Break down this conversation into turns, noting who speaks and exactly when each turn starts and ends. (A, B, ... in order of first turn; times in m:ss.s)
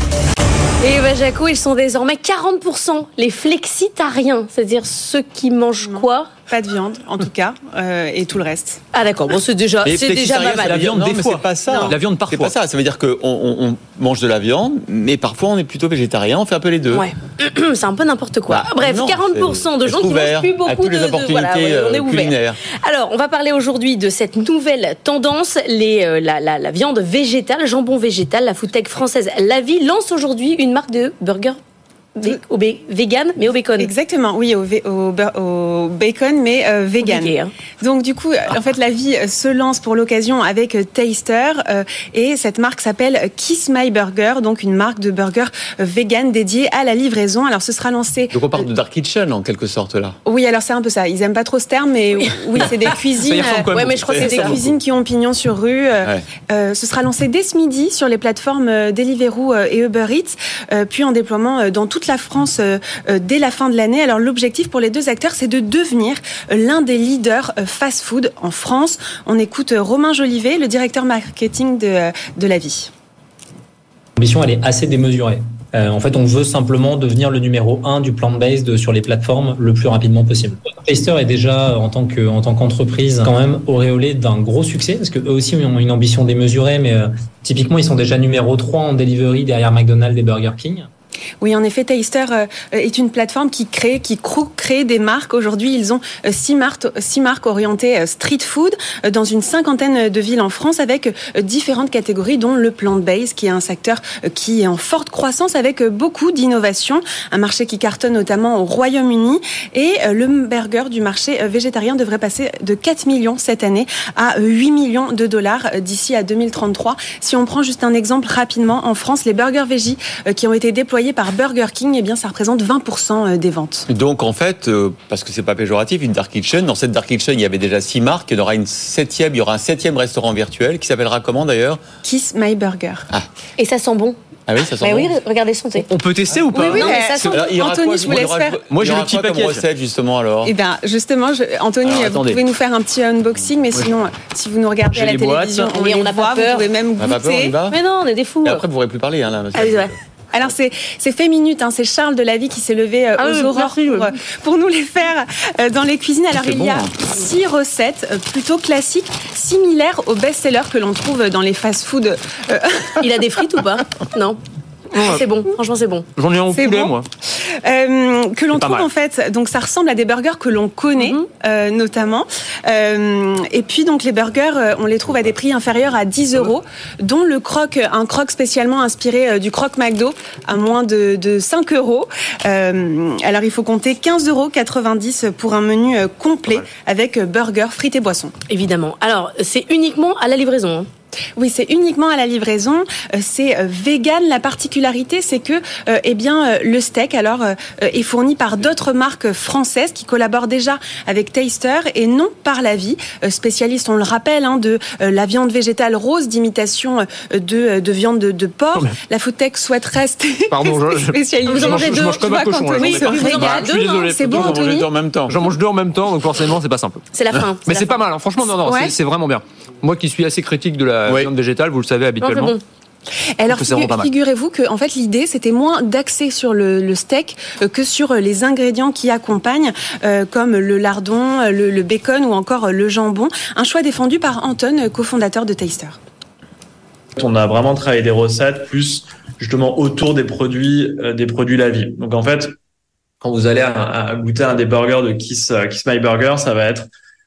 0:00.8-0:06.3 A
0:05.8-0:08.8 B
0:08.9-0:10.9 A
0:09.8-0:17.1 C
0:10.6-0:12.5 D
0:11.7-0:11.9 A
0:16.9-0:31.6 A
0:18.5-0:22.6 C
0:32.2-0:33.9 A
0:33.8-0:48.6 B
0:37.0-0:37.5 A
0:48.3-0:50.2 C
0:50.2-1:12.9 B
0:53.2-0:54.6 D
0:53.7-0:54.6 A
1:14.2-1:30.9 E
1:31.4-2:03.9 B
2:03.9-2:11.8 C
2:12.0-2:13.1 B
2:13.6-2:14.2 A
2:14.5-2:15.1 C
2:14.8-2:15.9 A
2:15.8-2:17.4 D
2:16.5-2:17.5 A
2:16.6-2:20.5 C
2:16.6-2:18.6 B
2:18.7-2:19.6 D
2:20.4-2:27.6 B
2:21.8-2:22.4 D
2:24.8-2:25.8 D
2:25.8-2:26.7 A
2:27.0-2:27.8 C
2:27.7-2:28.6 A
2:28.4-2:29.9 C
2:29.5-2:29.9 A
2:30.3-2:43.2 B
2:33.2-2:34.1 A
2:36.3-2:36.8 C
2:43.0-2:44.4 A
2:44.9-2:46.0 A
2:45.0-2:45.2 D
2:46.1-2:47.0 D
2:46.5-2:46.9 B
2:47.6-3:08.3 B
2:48.5-2:48.9 D
3:08.5-3:10.9 A
3:11.4-3:34.9 B
3:30.5-3:34.7 D
3:31.4-3:32.2 A
3:32.8-3:33.9 A
3:34.3-3:35.4 C
3:35.3-3:37.0 D
3:37.1-3:38.0 A
3:37.6-3:42.6 D
3:38.6-3:38.9 B
3:42.2-3:42.6 A
3:43.4-3:56.0 B
3:43.5-3:44.1 D
3:57.2-4:02.5 F
4:03.2-4:06.9 F